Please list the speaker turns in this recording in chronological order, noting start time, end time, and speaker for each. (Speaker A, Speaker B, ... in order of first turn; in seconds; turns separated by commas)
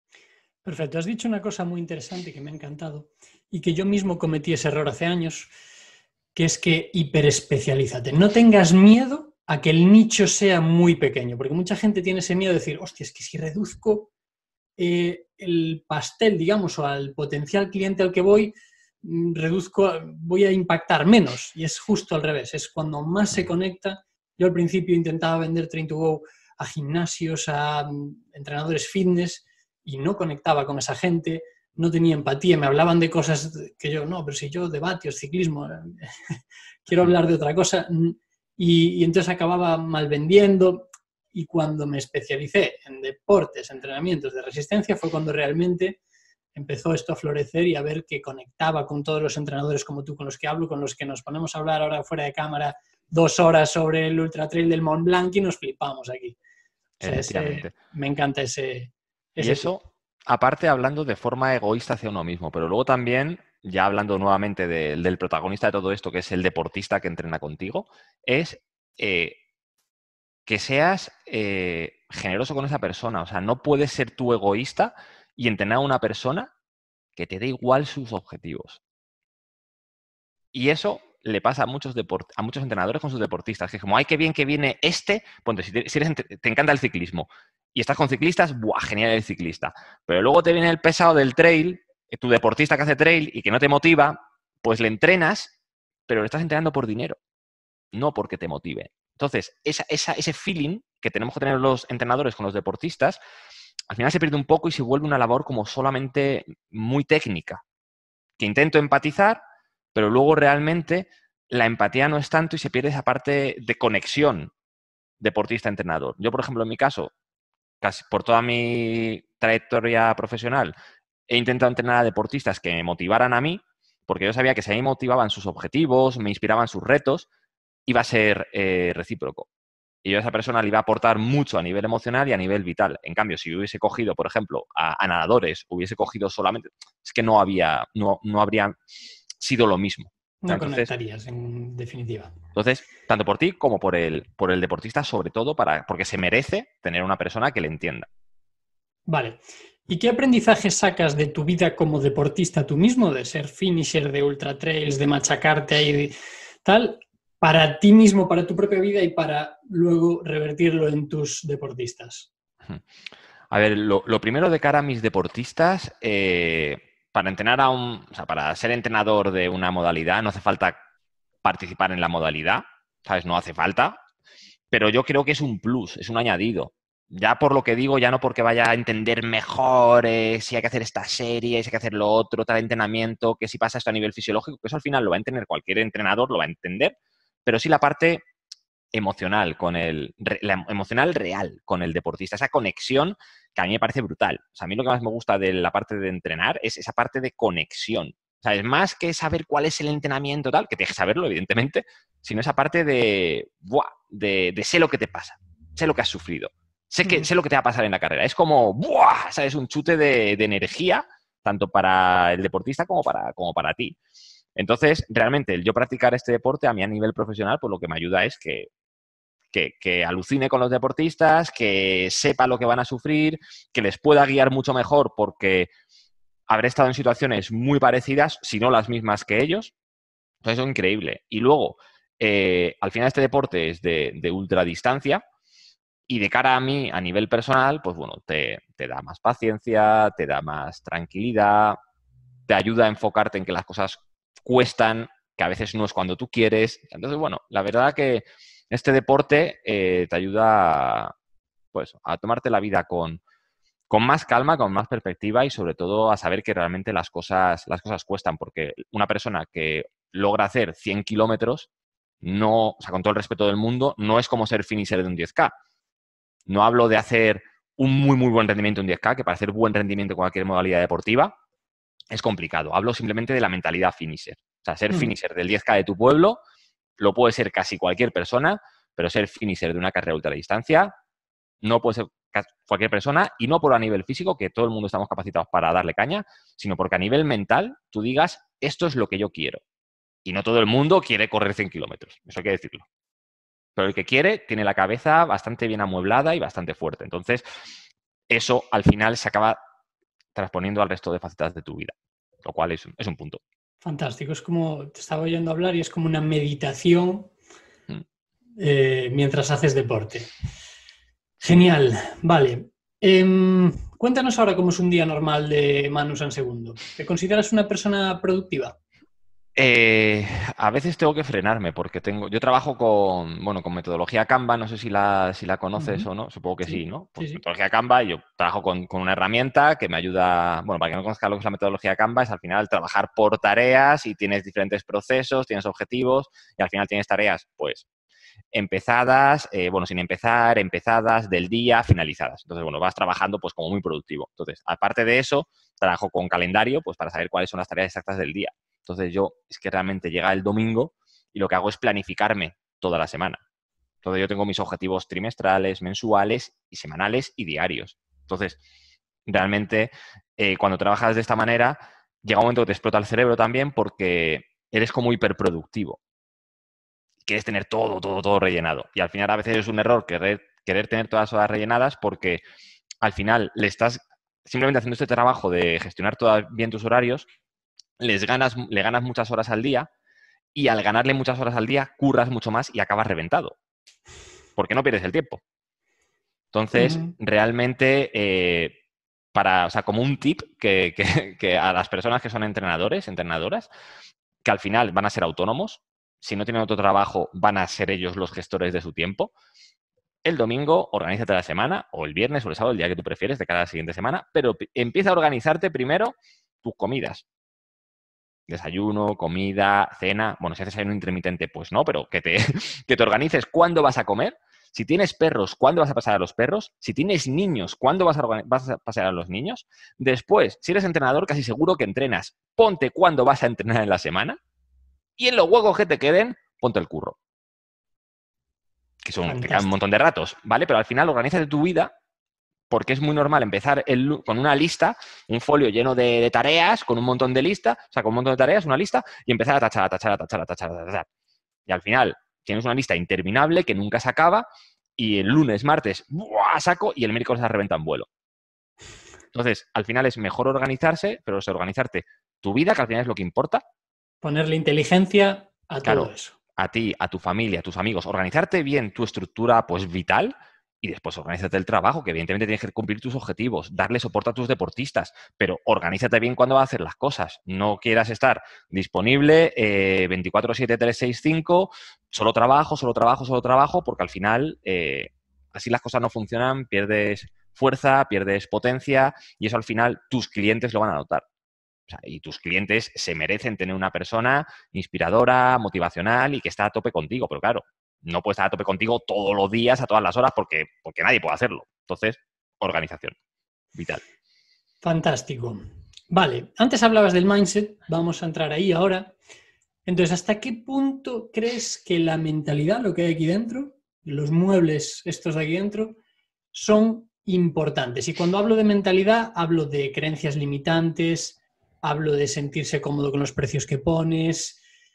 Speaker A: 0.6-5.5, Speaker A: 6.3-14.1, Speaker A: 14.8-46.0, Speaker A: 46.5-56.4, Speaker B: 57.0-57.7, Speaker A: 57.0-59.7, Speaker B: 59.4-69.4, Speaker B: 70.5-76.5, Speaker B: 77.2-78.8, Speaker B: 80.5-95.5, Speaker B: 96.1-97.2, Speaker B: 97.9-103.2, Speaker B: 103.9-107.6, Speaker B: 108.4-109.4, Speaker B: 109.9-114.5, Speaker B: 115.2-117.1, Speaker B: 117.8-120.7, Speaker B: 121.3-127.3, Speaker B: 127.9-129.5, Speaker B: 130.0-138.8, Speaker B: 139.4-140.9, Speaker A: 140.4-142.3, Speaker B: 142.5-148.1, Speaker A: 149.1-162.3, Speaker B: 163.5-170.8, Speaker B: 171.4-174.0, Speaker B: 174.7-186.9, Speaker B: 187.4-188.2, Speaker B: 188.9-214.0, Speaker B: 214.6-218.7, Speaker B: 219.5-225.7, Speaker B: 226.5-229.7, Speaker B: 230.4-235.2, Speaker B: 236.1-241.8, Speaker B: 242.5-251.1, Speaker B: 251.7-253.2, Speaker B: 253.9-261.7, Speaker B: 262.2-265.5, Speaker B: 266.5-271.4, Speaker B: 272.1-276.4, Speaker B: 277.0-280.9, Speaker B: 281.6-289.6, Speaker B: 290.2-292.9, Speaker B: 293.8-297.4, Speaker B: 298.3-299.6, Speaker B: 300.3-303.4, Speaker A: 303.8-307.3, Speaker A: 308.6-310.3, Speaker A: 311.4-318.8, Speaker B: 319.6-337.8, Speaker A: 325.8-326.1, Speaker A: 326.6-327.4, Speaker B: 338.5-353.4, Speaker B: 354.0-358.6, Speaker B: 359.3-366.0, Speaker B: 367.2-372.4, Speaker B: 373.0-377.3, Speaker B: 378.0-379.9, Speaker B: 380.5-383.6, Speaker B: 384.6-385.4, Speaker B: 386.5-388.8, Speaker A: 386.7-387.1, Speaker B: 389.3-393.7, Speaker B: 394.4-399.3, Speaker B: 400.2-407.2, Speaker B: 408.5-424.4, Speaker B: 425.2-427.2, Speaker B: 429.0-431.9, Speaker A: 429.3-429.7, Speaker B: 432.7-441.1, Speaker B: 441.7-444.4, Speaker B: 445.0-448.1, Speaker B: 449.3-453.6, Speaker A: 454.2-456.3, Speaker B: 455.8-481.2, Speaker B: 481.9-493.1, Speaker B: 493.7-494.0, Speaker A: 494.8-499.1, Speaker A: 499.9-506.0, Speaker A: 506.5-514.6